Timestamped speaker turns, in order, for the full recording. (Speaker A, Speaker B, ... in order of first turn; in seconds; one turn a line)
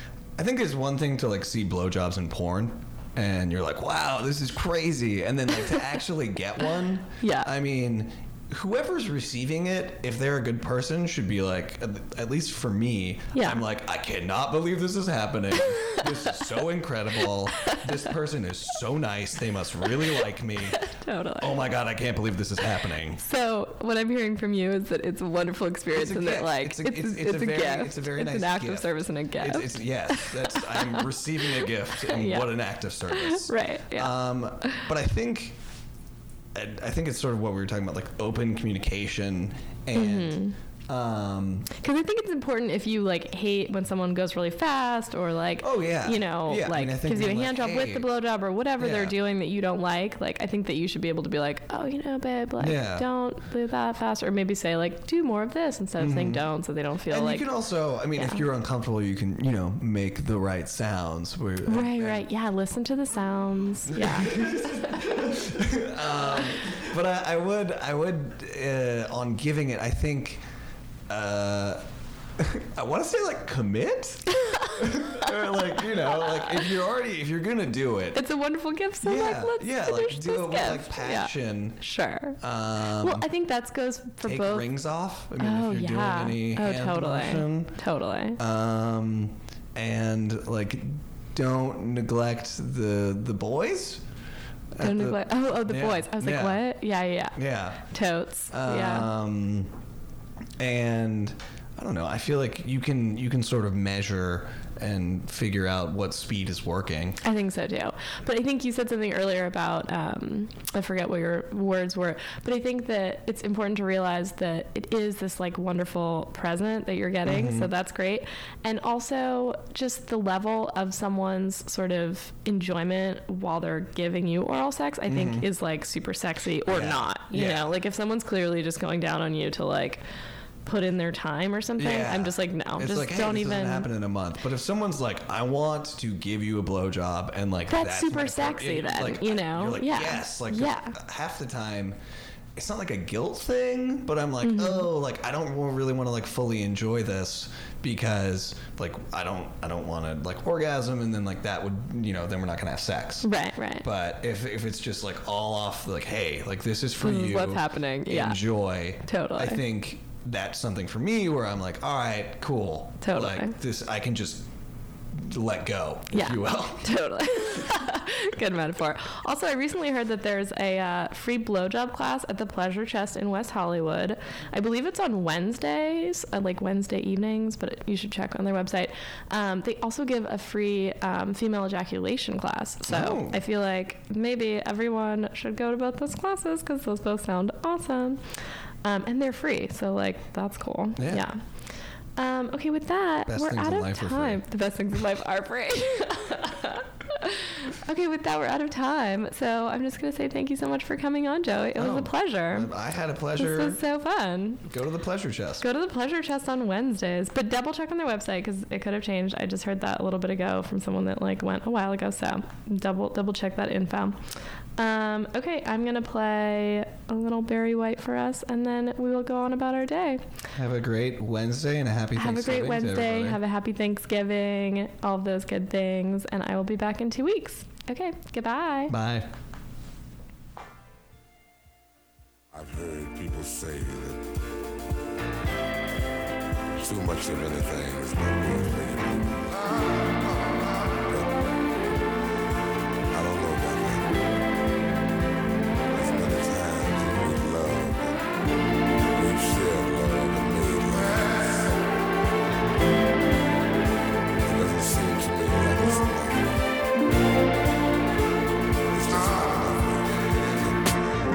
Speaker A: 0.4-20.9
Speaker B: 7.2-7.5
Speaker B: 13.3-13.6
Speaker B: 20.7-21.6
Speaker A: 21.4-23.2
Speaker B: 23.2-32.6
Speaker A: 25.9-35.6
Speaker B: 33.1-34.8
Speaker A: 36.5-41.7
Speaker B: 40.0-40.6
Speaker B: 41.7-57.5
Speaker A: 45.6-48.1
Speaker A: 48.8-49.2
Speaker A: 52.6-53.1
Speaker A: 56.0-56.5
Speaker A: 57.1-62.2
Speaker B: 58.1-58.4
Speaker B: 61.7-65.1
Speaker A: 63.9-70.4
Speaker A: 71.1-71.9
Speaker A: 72.4-78.2
Speaker B: 74.3-75.3
Speaker B: 76.0-76.7
Speaker B: 78.1-82.4
Speaker A: 79.0-81.8
Speaker A: 82.4-83.3
Speaker B: 83.0-84.7
Speaker A: 84.2-87.8
Speaker B: 85.4-88.4
Speaker A: 88.4-94.0
Speaker A: 94.8-96.7
Speaker B: 94.8-99.1
Speaker A: 97.4-97.9
Speaker A: 98.5-99.8
Speaker A: 100.6-107.2
Speaker B: 107.2-130.0
Speaker A: 117.2-117.7
Speaker A: 125.1-125.5
Speaker A: 126.7-127.7
Speaker B: 130.7-133.9
Speaker A: 131.8-142.0
Speaker B: 137.7-141.0
Speaker A: 142.6-153.3
Speaker B: 144.4-144.9
Speaker B: 153.2-153.9
Speaker A: 153.8-164.5
Speaker B: 157.0-158.4
Speaker B: 159.1-159.6
Speaker B: 163.0-163.6
Speaker A: 165.1-167.0
Speaker B: 166.1-188.2
Speaker A: 182.9-183.4
Speaker B: 188.8-191.4
Speaker A: 191.0-191.2
Speaker B: 192.2-202.7
Speaker A: 193.3-194.4
Speaker A: 201.8-203.8
Speaker B: 203.4-204.7
Speaker A: 204.7-205.7
Speaker B: 205.6-220.3
Speaker A: 220.6-223.4
Speaker B: 222.2-229.0
Speaker A: 228.9-229.3
Speaker C: 232.5-234.2
Speaker C: 236.8-241.3
Speaker C: 243.1-244.1
Speaker C: 245.9-248.2
Speaker C: 249.2-251.8
Speaker C: 254.4-256.5
Speaker C: 258.9-260.8